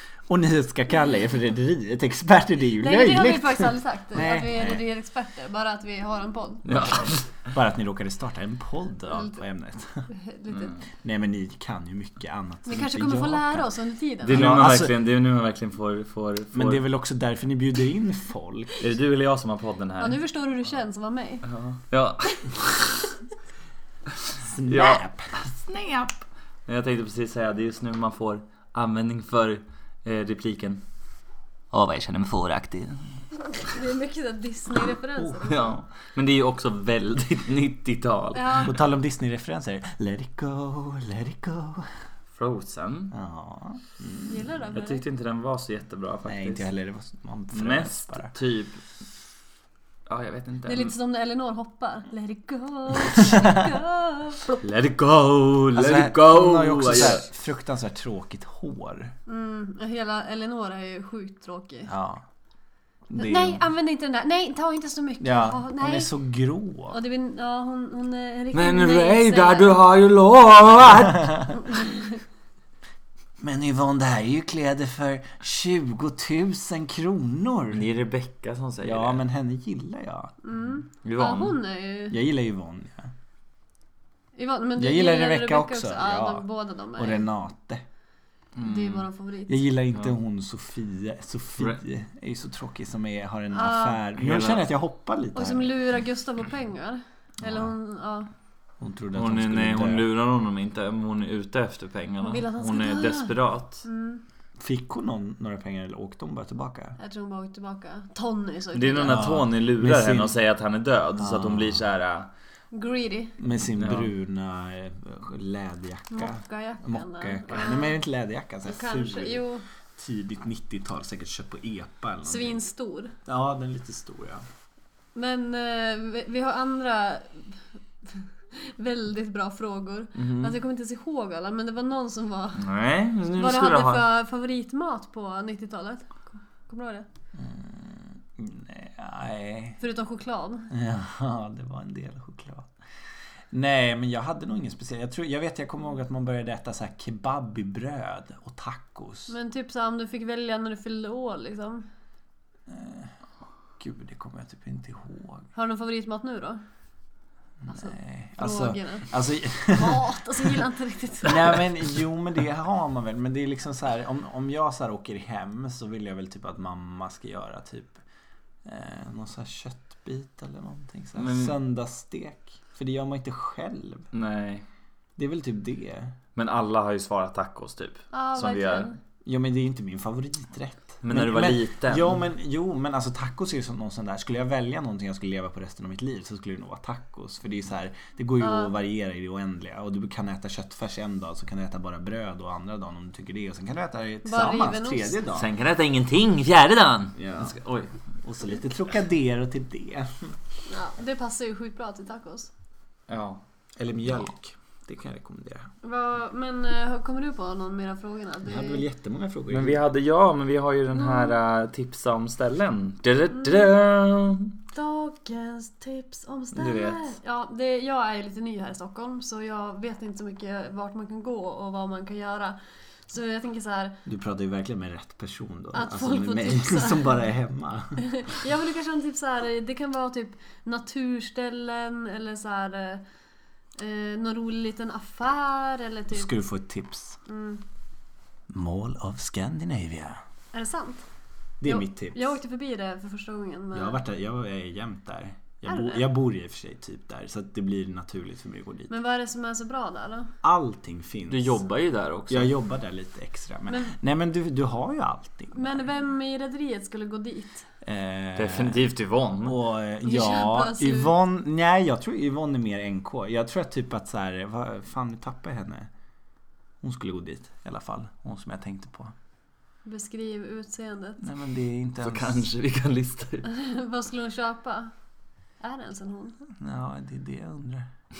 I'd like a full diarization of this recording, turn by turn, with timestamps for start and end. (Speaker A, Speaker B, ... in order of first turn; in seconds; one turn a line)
Speaker A: 0.3-4.8
Speaker B: 2.8-6.7
Speaker C: 6.7-7.3
Speaker A: 6.7-10.1
Speaker B: 9.1-9.4
Speaker B: 10.1-10.8
Speaker A: 11.0-13.7
Speaker B: 12.7-14.5
Speaker C: 14.2-16.8
Speaker A: 14.2-14.9
Speaker A: 16.5-18.8
Speaker C: 18.8-20.2
Speaker B: 20.0-21.4
Speaker C: 21.4-23.1
Speaker A: 24.4-25.4
Speaker C: 24.7-30.8
Speaker C: 31.7-33.1
Speaker B: 33.6-35.7
Speaker A: 35.2-35.5
Speaker C: 35.5-38.7
Speaker B: 38.4-38.7
Speaker A: 38.6-41.9
Speaker C: 42.3-43.1
Speaker A: 43.1-44.6
Speaker B: 44.3-45.0
Speaker C: 44.8-46.7
Speaker A: 46.2-48.3
Speaker C: 47.5-48.8
Speaker C: 50.1-50.9
Speaker B: 50.6-54.6
Speaker C: 54.6-57.2
Speaker A: 55.7-59.1
Speaker B: 59.3-61.9
Speaker A: 61.9-62.2
Speaker A: 63.1-63.6
Speaker B: 63.2-66.1
Speaker A: 65.2-67.0
Speaker B: 66.9-69.8
Speaker C: 68.5-71.6
Speaker B: 71.7-72.2
Speaker A: 73.4-77.8
Speaker C: 77.7-79.2
Speaker A: 78.8-80.3
Speaker B: 80.4-82.2
Speaker C: 81.0-81.6
Speaker A: 82.1-83.1
Speaker B: 84.4-87.2
Speaker A: 84.8-87.8
Speaker C: 88.6-89.1
Speaker B: 88.6-89.7
Speaker A: 89.5-95.8
Speaker B: 93.5-94.0
Speaker C: 94.2-94.7
Speaker B: 95.3-98.3
Speaker A: 97.4-97.7
Speaker A: 98.8-100.1
Speaker C: 99.2-103.8
Speaker B: 102.2-104.2
Speaker A: 104.6-107.0
Speaker B: 107.0-109.3
Speaker C: 108.7-112.3
Speaker A: 109.0-110.4
Speaker A: 111.2-111.9
Speaker B: 112.7-113.4
Speaker A: 113.4-122.6
Speaker C: 113.8-114.1
Speaker B: 116.1-118.0
Speaker B: 118.7-119.7
Speaker B: 122.2-123.2
Speaker A: 123.3-124.4
Speaker B: 125.2-132.7
Speaker C: 132.6-134.1
Speaker B: 133.3-137.1
Speaker A: 137.3-139.8
Speaker B: 139.8-140.7
Speaker A: 140.7-142.7
Speaker A: 143.5-149.3
Speaker B: 149.3-151.9
Speaker A: 152.7-153.1
Speaker A: 153.8-155.5
Speaker B: 155.6-156.6
Speaker A: 157.6-160.1
Speaker B: 157.7-159.1
Speaker B: 159.6-161.7
Speaker A: 161.2-168.0
Speaker A: 168.7-174.1
Speaker C: 171.2-171.6
Speaker C: 174.1-174.7
Speaker A: 175.2-176.2
Speaker C: 176.4-178.9
Speaker B: 178.1-179.0
Speaker A: 179.2-195.5
Speaker C: 181.0-182.1
Speaker B: 188.4-188.7
Speaker B: 194.2-195.2
Speaker C: 195.3-197.9
Speaker A: 197.2-197.6
Speaker A: 198.2-200.4
Speaker B: 200.7-202.5
Speaker C: 203.1-203.4
Speaker A: 203.8-205.7
Speaker B: 205.8-208.8
Speaker A: 208.4-209.8
Speaker C: 209.5-214.5
Speaker B: 211.0-211.3
Speaker B: 214.7-224.0
Speaker C: 216.6-217.0
Speaker A: 224.1-228.0
Speaker B: 225.7-227.2
Speaker B: 228.0-233.0
Speaker B: 233.8-236.3
Speaker A: 236.1-237.2
Speaker B: 237.3-237.6
Speaker A: 238.5-240.2
Speaker B: 240.5-241.1
Speaker A: 241.6-242.4
Speaker B: 241.7-244.0
Speaker A: 243.7-248.9
Speaker B: 245.7-246.1
Speaker B: 248.9-250.3
Speaker A: 250.4-251.6
Speaker C: 251.3-252.5
Speaker A: 252.3-255.8
Speaker B: 253.7-253.9
Speaker B: 255.5-257.7
Speaker A: 257.8-258.9
Speaker C: 258.4-259.6
Speaker A: 259.4-265.9
Speaker B: 260.0-261.1
Speaker A: 266.8-269.1
Speaker B: 269.9-271.2
Speaker A: 271.2-272.5
Speaker C: 272.0-273.5
Speaker B: 273.5-274.9
Speaker B: 275.6-276.4
Speaker A: 276.6-277.9